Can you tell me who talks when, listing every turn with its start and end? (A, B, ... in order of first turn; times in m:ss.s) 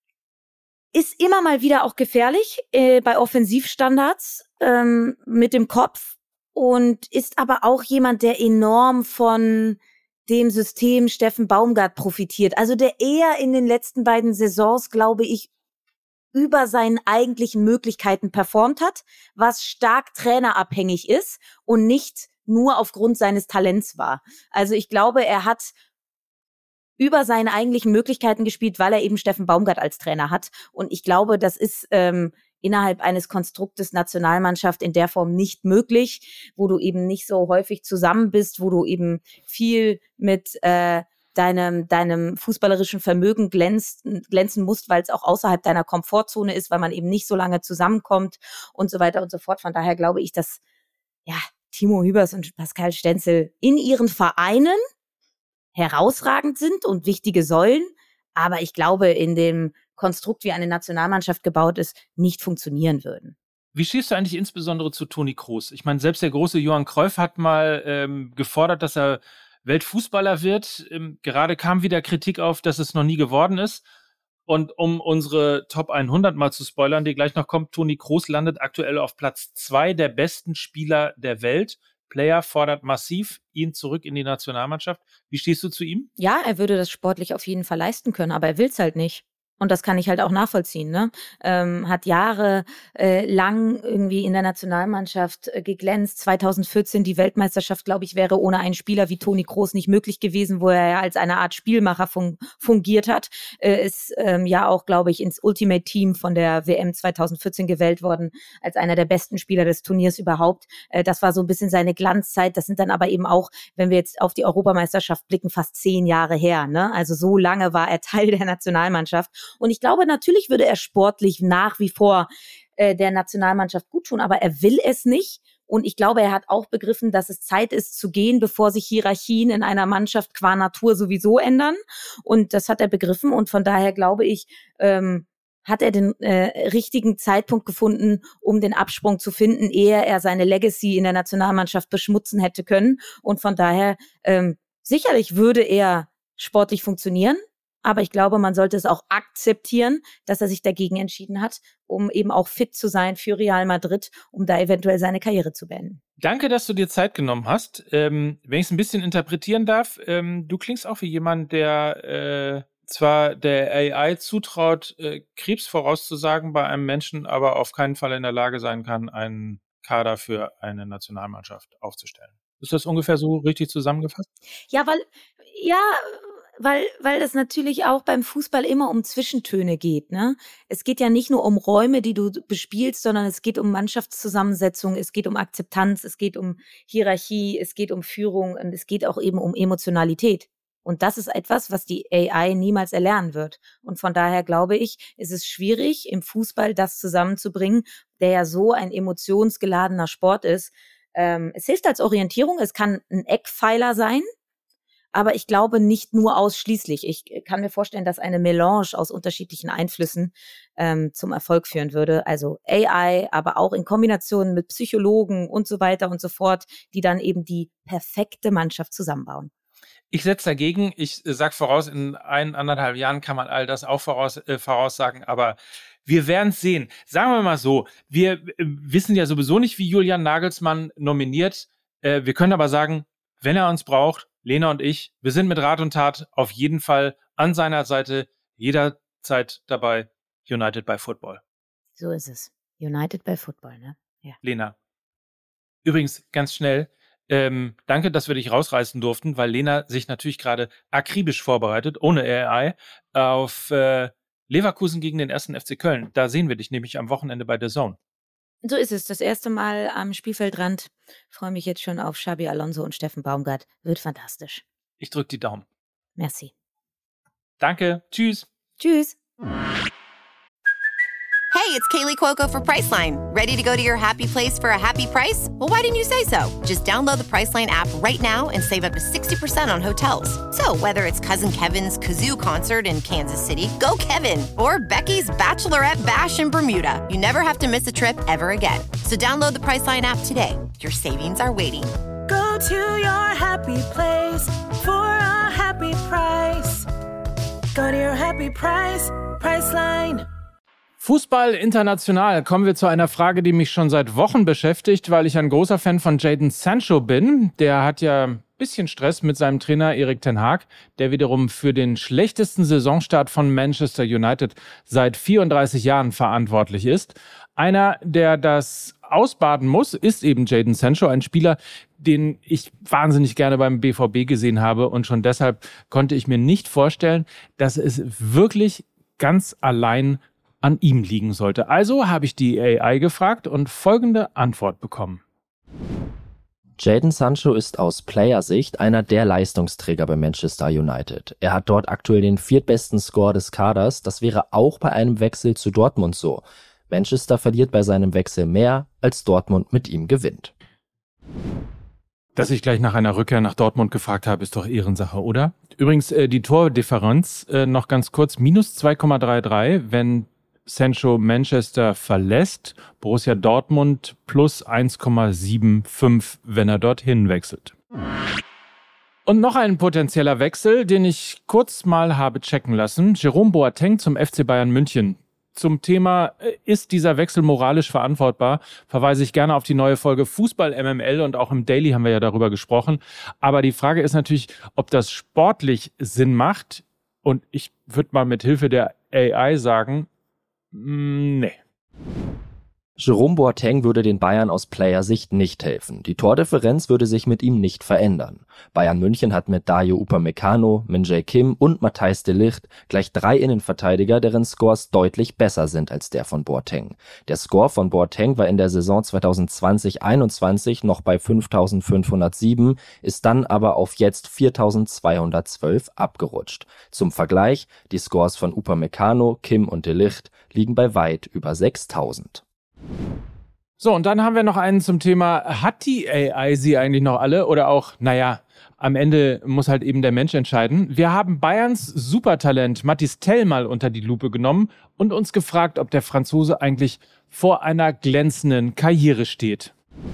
0:00.9-0:15.5 A
0:16.3-0:25.7 A
0:27.0-0:50.6 A
0:51.2-0:54.8 A
0:55.7-1:03.3 A
1:03.7-1:13.8 B
1:14.5-1:26.1 B
1:26.2-2:36.0 A
2:36.2-2:54.3 B
2:54.7-3:24.2 A
3:25.1-3:39.5 A
3:40.1-4:01.4 B
4:02.0-4:04.4 A
4:04.4-4:04.7 B
4:05.8-4:18.0 B
4:18.6-4:24.6 A
4:25.0-4:25.6 B
4:26.2-4:26.5 A
4:27.6-4:28.4 B
4:28.8-4:29.2 A
4:31.5-4:51.9 C
4:52.3-4:56.9 D
4:57.7-5:00.2 D
5:01.0-5:35.2 B
5:36.8-5:50.5 E
5:52.3-6:07.7 B
6:09.2-6:30.1 B
6:30.7-6:31.6 B
6:33.0-7:02.4 E
7:03.8-7:19.7 B